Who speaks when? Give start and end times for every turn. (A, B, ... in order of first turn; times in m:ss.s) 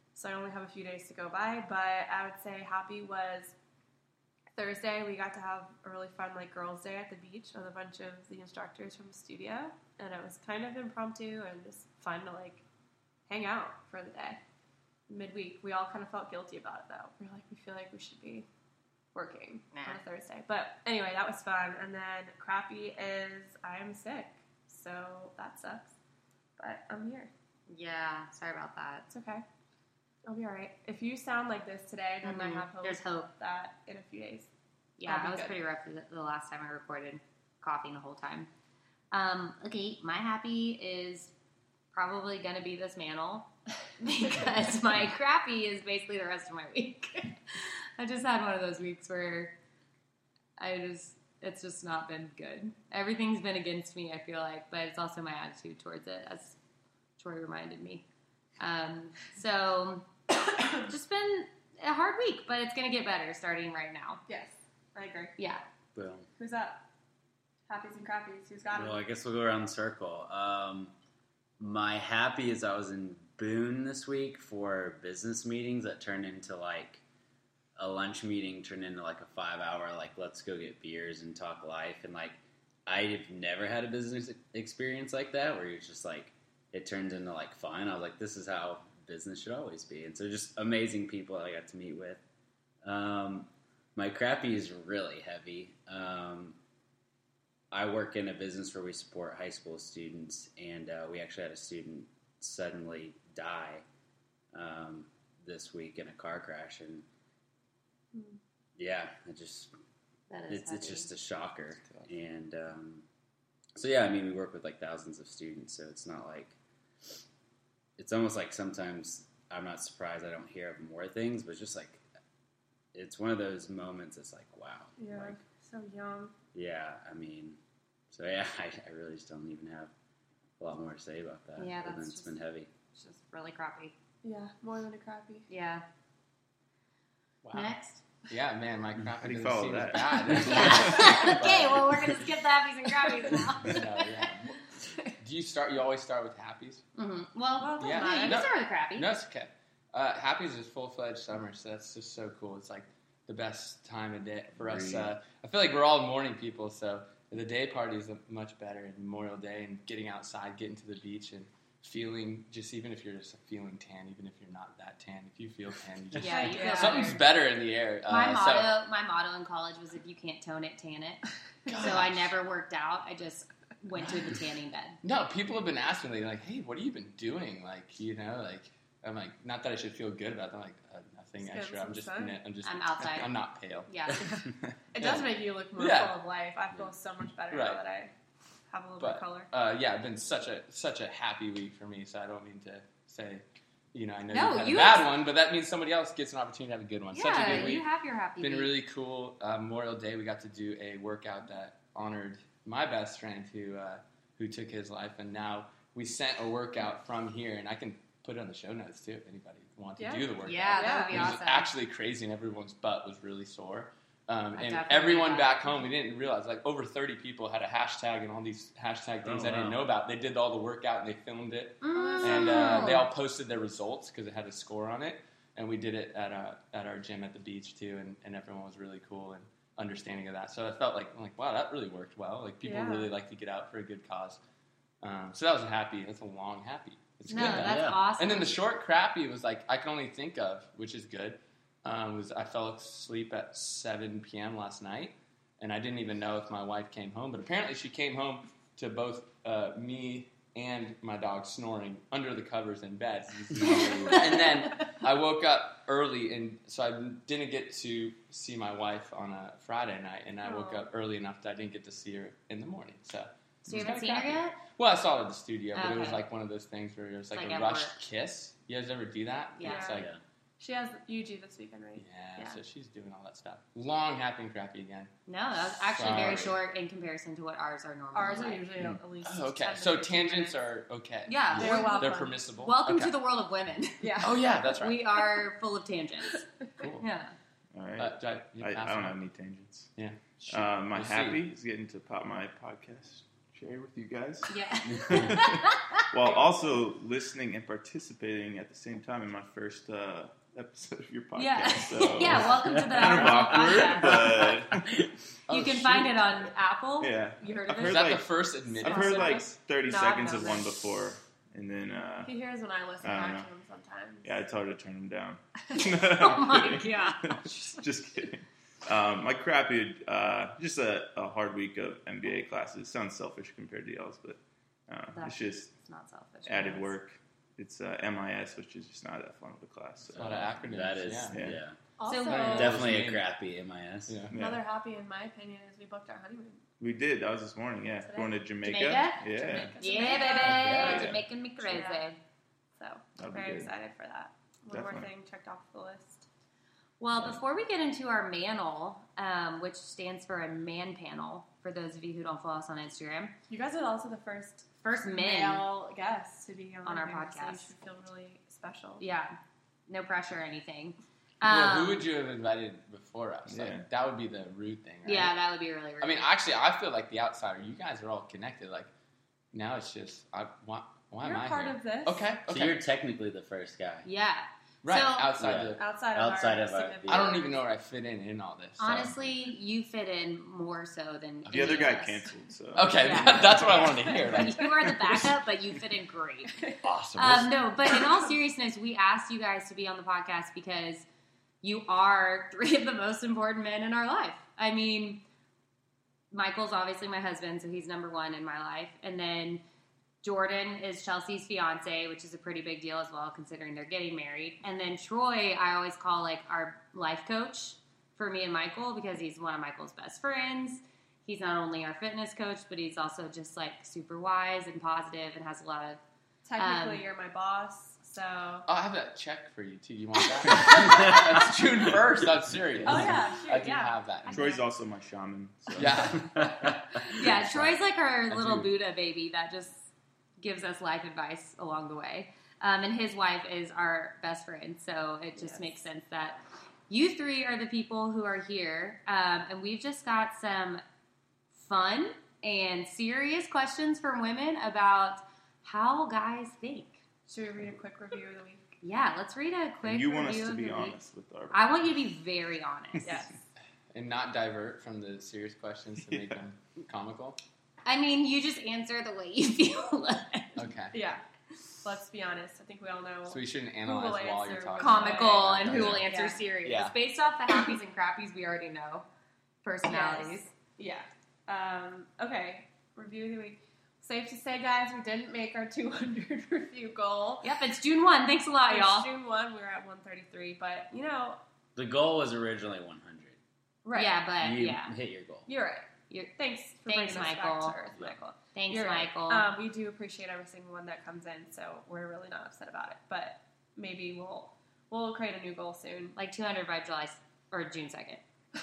0:00.2-0:03.6 A
0:04.6-0:12.6 A
0:13.3-0:14.4 A
0:15.1-0:18.5 A
0:19.1-0:25.9 A
0:19.7-0:20.0 B
0:26.6-0:27.3 A
0:27.7-0:29.1 B
0:29.1-0:29.4 A
0:30.3-0:34.5 A
0:32.2-0:33.3 B
0:35.0-0:38.5 B
0:35.0-0:35.6 A
0:39.1-0:41.3 B
0:41.9-0:43.5 B
0:44.0-0:49.5 B
0:50.6-0:56.6 B
0:57.2-0:58.0 B
0:58.6-1:00.1 B
1:00.6-1:04.2 B
1:04.3-1:05.4 A
1:05.4-1:05.6 B
1:06.0-1:06.3 C
1:06.4-1:06.8 A
1:07.7-1:09.0 A
1:08.7-1:10.9 C
1:11.6-1:17.0 C
1:17.8-1:32.2 C
1:32.8-1:36.6 C
1:37.7-1:43.8 C
1:44.5-1:47.0 C
1:48.8-1:49.7 C
1:50.3-1:51.1 B
1:50.5-1:53.0 C
1:53.8-1:56.6 C
1:58.0-2:02.0 C
2:02.9-2:05.4 C
2:05.0-2:06.3 A
2:06.5-2:07.6 C
2:08.1-2:09.9 C
2:10.6-2:12.7 C
2:11.6-2:12.4 B
2:13.0-2:14.0 B
2:14.2-2:15.5 A
2:15.5-2:15.8 B
2:17.4-2:17.8 D
2:17.5-2:18.0 B
2:18.3-2:22.0 D
2:19.2-2:21.2 E
2:20.3-2:23.9 B
2:23.6-2:24.6 D
2:25.2-2:26.8 D
2:27.0-2:29.2 B
2:27.6-2:28.5 A
2:27.8-2:48.8 D
2:34.6-2:35.1 C
2:46.2-2:47.2 B
2:46.2-2:47.2 A
2:48.1-2:55.0 B
2:51.7-2:52.3 D
2:55.0-3:04.3 D
3:01.4-3:02.4 A
3:02.6-3:03.3 B
3:03.9-3:04.2 B
3:04.2-3:08.1 A
3:05.0-3:06.2 D
3:07.5-3:07.8 D
3:08.7-3:09.5 A
3:09.0-3:17.9 D
3:14.3-3:15.1 B
3:17.1-3:18.8 B
3:18.4-3:54.4 D
3:30.0-3:31.3 A
3:30.4-3:31.7 B
3:34.5-3:35.8 B
3:39.2-3:39.8 C
3:41.8-3:43.1 B
3:42.0-3:42.9 A
3:52.6-3:53.1 A
3:55.0-4:30.1 D
3:57.3-3:58.5 B
3:57.3-3:58.0 C
4:13.6-4:14.5 B
4:20.4-4:20.8 A
4:23.7-4:24.6 B
4:25.7-4:26.3 B
4:27.3-4:28.0 B
4:29.6-4:29.9 B
4:29.6-4:30.1 A
4:29.9-4:30.2 C
4:30.6-4:32.0 A
4:32.0-4:36.6 D
4:35.3-4:38.6 B
4:36.0-4:36.6 C
4:38.1-4:40.6 A
4:39.2-4:43.2 D
4:41.3-4:46.5 B
4:41.5-4:42.4 A
4:44.0-4:44.4 A
4:44.2-4:45.3 D
4:46.8-4:47.1 D
4:47.0-4:47.4 B
4:47.7-4:49.9 E
4:48.0-4:49.2 D
4:50.0-4:51.4 D
4:50.5-5:05.0 E
4:54.5-4:56.0 B
5:01.4-5:04.6 B
5:02.6-5:04.2 C
5:05.5-5:06.2 D
5:05.5-5:07.1 B
5:07.0-5:12.3 E
5:07.4-5:08.2 A
5:07.8-5:09.4 D
5:08.8-5:10.8 A
5:12.2-5:14.4 A
5:13.0-5:13.5 E
5:14.2-5:25.7 E
5:16.1-5:17.4 B
5:25.1-5:27.0 B
5:26.5-5:30.6 E
5:30.2-5:31.8 C
5:30.2-5:31.5 D
5:31.3-5:31.6 E
5:32.0-5:32.8 A
5:32.0-5:32.7 B
5:32.3-5:33.3 D
5:32.3-5:34.3 C
5:34.1-5:34.3 D
5:34.3-5:34.6 E
5:34.3-5:36.6 A
5:36.8-5:39.7 E
5:38.0-5:38.4 A
5:38.6-5:42.2 B
5:39.2-5:42.0 A
5:40.4-5:41.1 C
5:40.6-5:41.2 E
5:42.8-5:46.3 A
5:43.2-5:43.7 E
5:44.7-5:45.1 E
5:47.0-5:53.4 B
5:53.5-5:59.0 A
5:54.8-5:55.7 B
5:56.8-5:57.7 B
5:59.0-5:59.4 B
5:59.9-6:02.1 B
6:01.4-6:05.4 D
6:03.5-6:03.8 E
6:05.0-6:06.3 B
6:06.0-6:08.9 D
6:09.5-6:12.9 D
6:11.2-6:12.2 A
6:12.5-6:14.1 C
6:14.0-6:15.3 B
6:14.8-6:15.8 D
6:15.4-6:17.5 C
6:15.7-6:17.6 A
6:17.1-6:19.2 D
6:18.8-6:22.3 B
6:21.5-6:23.9 E
6:22.8-6:24.7 D
6:23.0-6:26.6 B
6:24.6-6:25.3 E
6:26.8-6:27.5 D
6:27.2-6:31.1 B
6:31.6-6:35.2 B
6:36.3-6:39.6 B
6:40.2-6:56.0 B
6:56.5-6:58.7 A
6:56.6-6:57.1 B
6:58.7-7:04.5 D
7:02.9-7:04.6 A
7:04.3-7:06.2 E
7:05.8-7:06.4 D
7:06.4-7:06.8 C
7:07.0-7:09.8 B
7:07.3-7:07.7 D
7:10.4-7:20.8 B
7:15.4-7:15.8 A
7:21.5-7:27.0 B
7:27.3-7:28.8 A
7:28.8-7:31.0 B
7:29.8-7:31.8 E
7:31.5-7:33.2 B
7:33.0-7:33.4 A
7:33.9-7:37.4 D
7:36.1-7:36.4 E
7:37.8-7:40.7 B
7:40.6-7:41.0 D
7:40.9-7:41.2 A
7:41.8-7:46.4 A
7:43.3-7:46.1 D
7:44.8-7:49.0 B
7:46.6-7:47.0 D
7:49.6-7:50.5 B
7:49.8-7:57.5 A
7:57.4-7:59.1 B
7:58.7-8:01.4 A
8:01.8-8:03.4 C
8:03.8-8:04.2 A
8:03.9-8:05.0 B
8:04.4-8:05.5 C
8:05.5-8:16.2 A
8:06.1-8:07.8 B
8:08.5-8:09.5 B
8:16.2-8:18.2 B